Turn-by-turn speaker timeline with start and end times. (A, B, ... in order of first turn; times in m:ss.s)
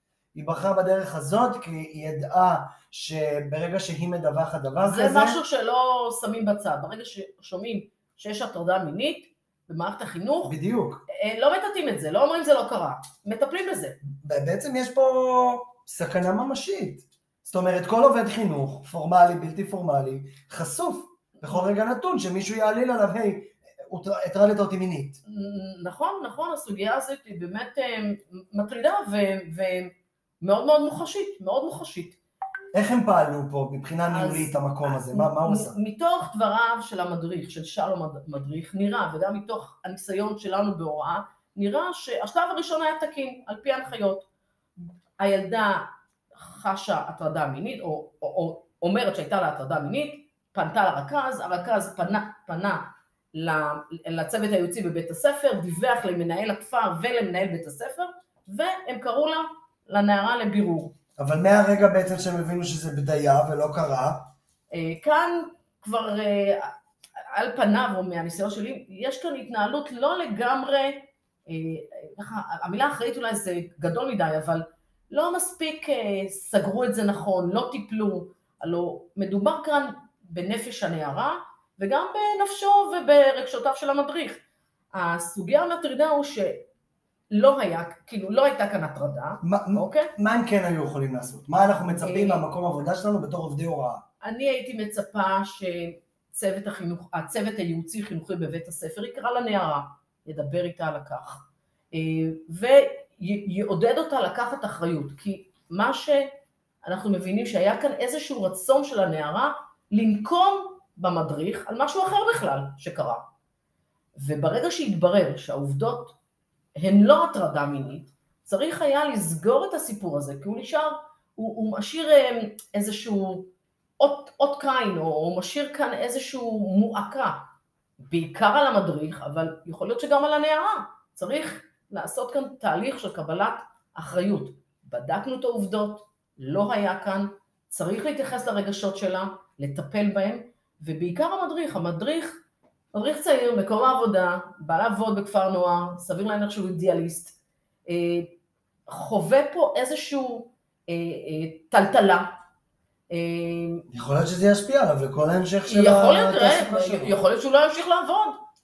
0:00.3-0:05.4 A
0:04.8-0:10.5 B
0:10.4-0:11.0 A
0:11.1-0:14.0 B
0:14.2-0:25.2 A
0:25.2-0:32.2 B
0:32.7-0:35.8 A
0:34.1-0:44.2 B
0:45.2-1:00.9 B
1:01.2-1:04.3 A
1:04.7-1:06.7 B
1:07.3-1:26.6 B
1:27.3-1:30.1 B
1:29.4-1:34.0 A
1:32.0-1:32.4 B
1:34.2-1:46.3 B
1:46.8-1:53.2 B
1:54.2-1:56.2 B
1:56.8-2:07.4 B
2:08.0-2:22.3 B
2:22.9-2:27.4 B
2:27.9-2:28.3 B
2:28.9-2:32.3 B
2:33.1-2:33.8 B
2:33.9-2:37.2 A
2:35.6-2:38.4 B